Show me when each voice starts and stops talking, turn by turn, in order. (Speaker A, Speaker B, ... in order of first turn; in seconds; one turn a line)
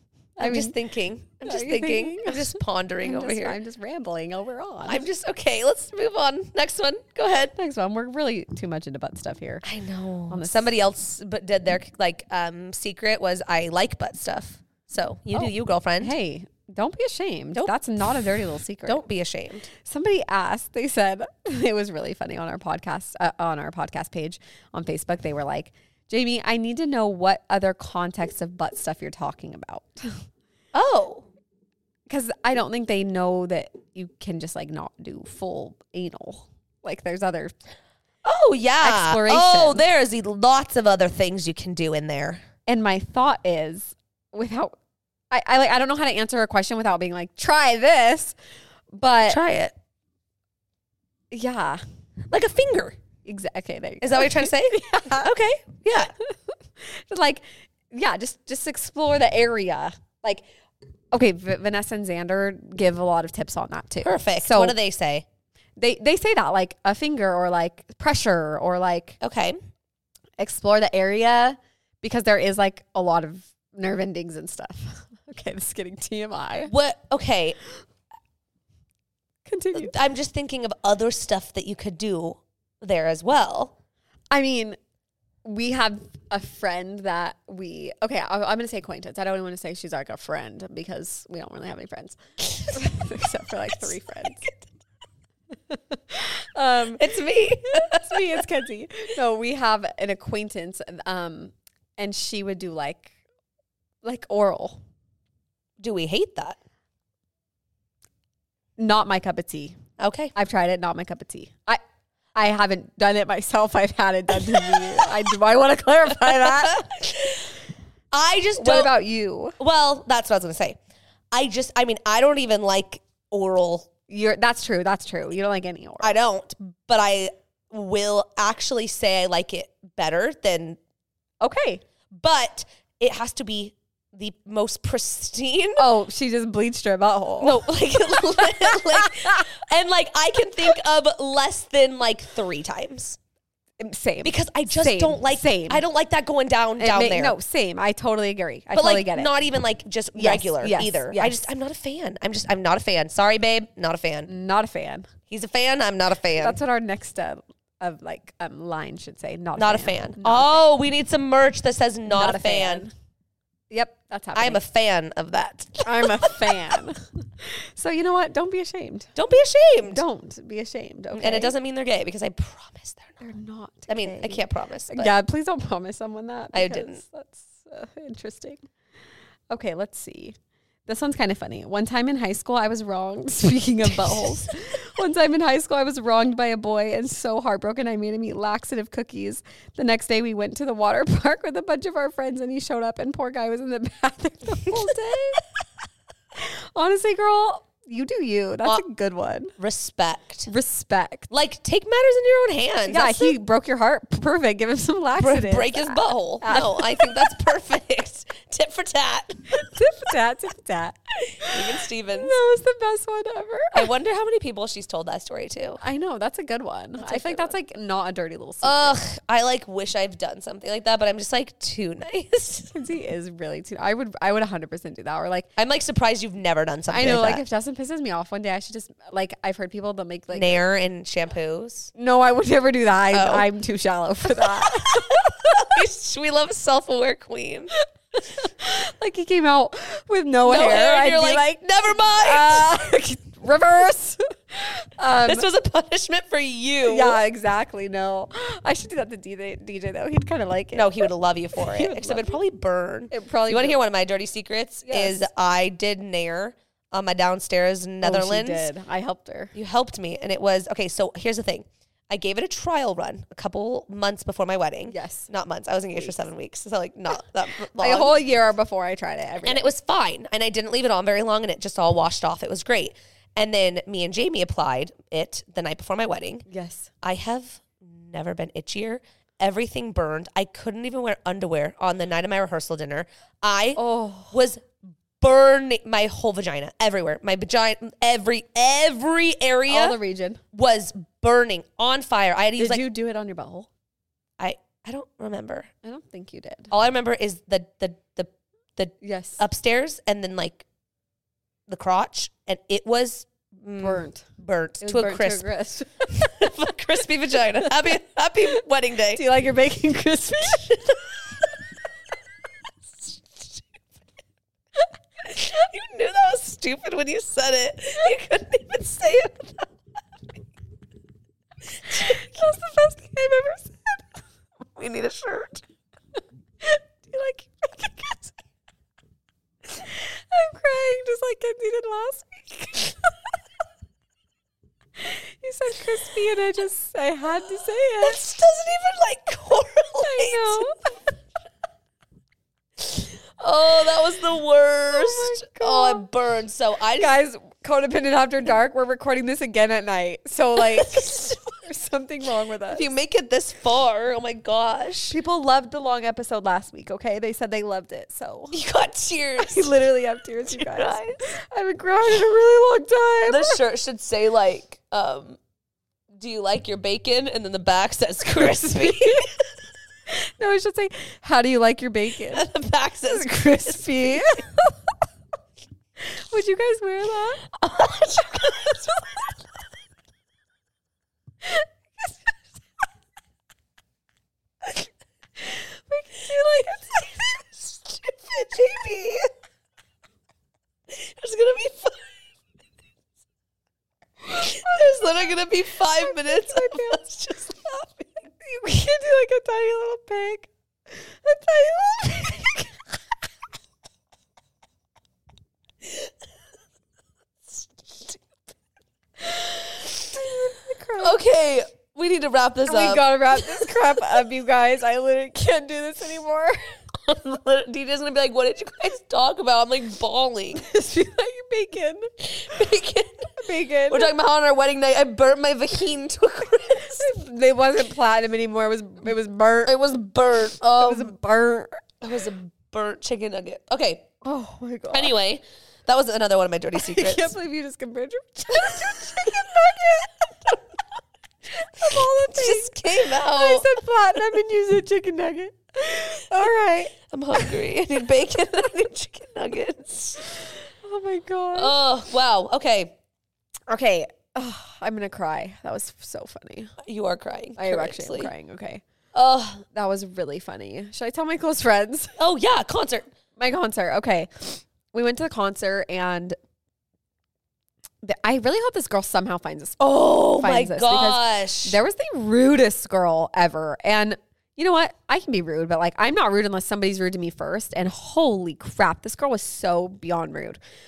Speaker A: 0.4-0.7
Speaker B: 0.4-3.6
Speaker A: 1.4-5.0
Speaker B: 4.9-7.5
Speaker A: 7.5-9.6
Speaker B: 9.6-16.1
Speaker A: 10.3-10.7
Speaker A: 15.4-19.0
Speaker B: 18.9-19.7
Speaker A: 19.7-30.2
Speaker B: 30.7-31.3
Speaker A: 32.1-37.5
Speaker B: 38.2-42.4
Speaker A: 38.8-39.8
Speaker A: 42.7-44.7
Speaker A: 45.3-48.4
Speaker A: 48.9-49.4
Speaker B: 49.2-49.7
Speaker A: 51.3-51.8
Speaker B: 52.3-53.0
Speaker A: 53.2-55.3
Speaker B: 54.0-56.1
Speaker A: 56.0-60.5
Speaker A: 61.1-64.8
Speaker B: 64.0-65.2
Speaker A: 65.8-69.2
Speaker B: 69.2-69.6
Speaker A: 70.4-76.7
Speaker B: 76.6-77.6
Speaker A: 79.5-80.0
Speaker B: 79.7-83.7
Speaker A: 84.3-84.8
Speaker A: 85.5-94.6
Speaker A: 95.7-103.1
Speaker B: 97.0-98.4
Speaker A: 104.0-104.8
Speaker B: 105.8-106.6
Speaker A: 108.8-109.8
Speaker B: 110.0-110.3
Speaker A: 110.3-111.8
Speaker A: 112.3-116.9
Speaker B: 114.5-115.1
Speaker B: 116.2-117.5
Speaker B: 118.1-118.9
Speaker A: 118.6-119.6
Speaker B: 119.6-120.8
Speaker B: 121.3-123.9
Speaker A: 124.1-126.2
Speaker B: 126.0-130.8
Speaker A: 131.4-131.8
Speaker B: 132.1-135.8
Speaker A: 135.8-139.4
Speaker B: 137.4-143.2
Speaker A: 143.8-145.8
Speaker B: 144.2-147.4
Speaker A: 146.8-149.3
Speaker B: 148.7-154.3
Speaker A: 150.1-151.4
Speaker A: 154.3-155.1
Speaker B: 155.3-156.6
Speaker A: 156.4-160.6
Speaker B: 159.6-162.9
Speaker A: 162.1-162.9
Speaker A: 163.7-164.6
Speaker B: 164.3-166.6
Speaker A: 165.8-169.1
Speaker B: 169.2-170.0
Speaker A: 169.9-171.5
Speaker B: 171.1-173.2
Speaker A: 173.2-178.6
Speaker B: 173.9-175.1
Speaker B: 176.5-177.0
Speaker A: 179.5-180.4
Speaker A: 180.9-195.4
Speaker B: 194.7-195.0
Speaker A: 196.4-199.6
Speaker B: 199.6-200.5
Speaker A: 200.5-201.3
Speaker B: 201.3-203.4
Speaker A: 202.9-207.3
Speaker B: 205.2-209.6
Speaker A: 209.5-213.9
Speaker B: 211.4-212.4
Speaker B: 213.7-215.8
Speaker A: 215.8-219.0
Speaker B: 217.0-217.5
Speaker B: 218.6-222.7
Speaker A: 222.7-225.5
Speaker B: 225.6-227.4
Speaker A: 226.9-230.6
Speaker B: 230.3-231.9
Speaker A: 231.9-235.8
Speaker B: 233.1-233.5
Speaker B: 234.3-237.7
Speaker A: 238.2-245.5
Speaker B: 240.4-242.8
Speaker B: 245.1-247.2
Speaker A: 246.9-252.4
Speaker B: 250.7-258.7
Speaker A: 253.1-253.8
Speaker A: 254.9-255.2
Speaker A: 258.0-259.5
Speaker B: 259.5-268.2
Speaker A: 264.9-265.3
Speaker A: 267.8-269.7
Speaker B: 269.4-276.4
Speaker A: 276.5-276.9
Speaker B: 277.0-290.0
Speaker A: 283.8-284.4
Speaker A: 289.7-290.4
Speaker B: 290.5-292.9
Speaker A: 292.6-293.7
Speaker B: 294.4-295.7
Speaker A: 295.8-296.7
Speaker B: 296.7-300.6
Speaker A: 299.0-299.4
Speaker B: 301.7-305.5
Speaker A: 303.8-304.3
Speaker A: 304.8-306.5
Speaker B: 306.1-309.2
Speaker A: 309.1-311.0
Speaker B: 310.6-310.9
Speaker B: 315.2-319.7
Speaker B: 321.9-322.2
Speaker A: 321.9-324.1
Speaker B: 324.7-325.6
Speaker A: 326.6-328.3
Speaker A: 329.7-333.2
Speaker A: 335.0-338.3
Speaker B: 338.0-340.7
Speaker A: 340.0-340.8
Speaker B: 342.8-347.1
Speaker A: 344.9-346.0
Speaker A: 347.0-352.9
Speaker B: 350.6-351.4
Speaker B: 352.7-355.1
Speaker A: 355.1-358.6
Speaker B: 358.5-359.7
Speaker A: 359.4-363.6
Speaker B: 360.5-361.3
Speaker B: 363.3-365.4
Speaker B: 366.1-369.3
Speaker A: 368.7-369.3
Speaker A: 370.1-372.5
Speaker B: 372.3-374.5
Speaker A: 373.1-374.6
Speaker A: 376.1-377.5
Speaker B: 377.6-379.3
Speaker A: 381.4-382.2
Speaker A: 385.4-387.1
Speaker B: 387.8-389.3
Speaker B: 390.9-392.3
Speaker B: 394.3-398.1
Speaker A: 394.4-394.9
Speaker A: 395.9-397.1
Speaker A: 398.3-402.8
Speaker A: 410.1-411.2
Speaker B: 411.0-413.8
Speaker A: 412.6-416.7
Speaker B: 417.0-420.6
Speaker A: 420.6-422.7
Speaker B: 422.2-423.4
Speaker A: 423.4-424.1
Speaker B: 423.9-427.1
Speaker A: 426.9-429.8
Speaker B: 429.6-431.1
Speaker A: 430.8-431.8
Speaker B: 432.0-434.1
Speaker A: 434.2-435.1
Speaker B: 434.9-437.4
Speaker A: 436.7-440.5
Speaker B: 438.5-439.9
Speaker A: 441.5-447.5
Speaker B: 441.8-444.3
Speaker B: 446.4-450.2
Speaker A: 450.8-451.8
Speaker B: 451.5-452.9
Speaker A: 453.7-456.8
Speaker B: 456.8-458.3
Speaker A: 457.6-458.8
Speaker B: 459.1-459.6
Speaker A: 459.7-462.1
Speaker B: 462.2-463.1
Speaker A: 463.4-466.4
Speaker A: 468.0-480.6
Speaker B: 469.8-471.8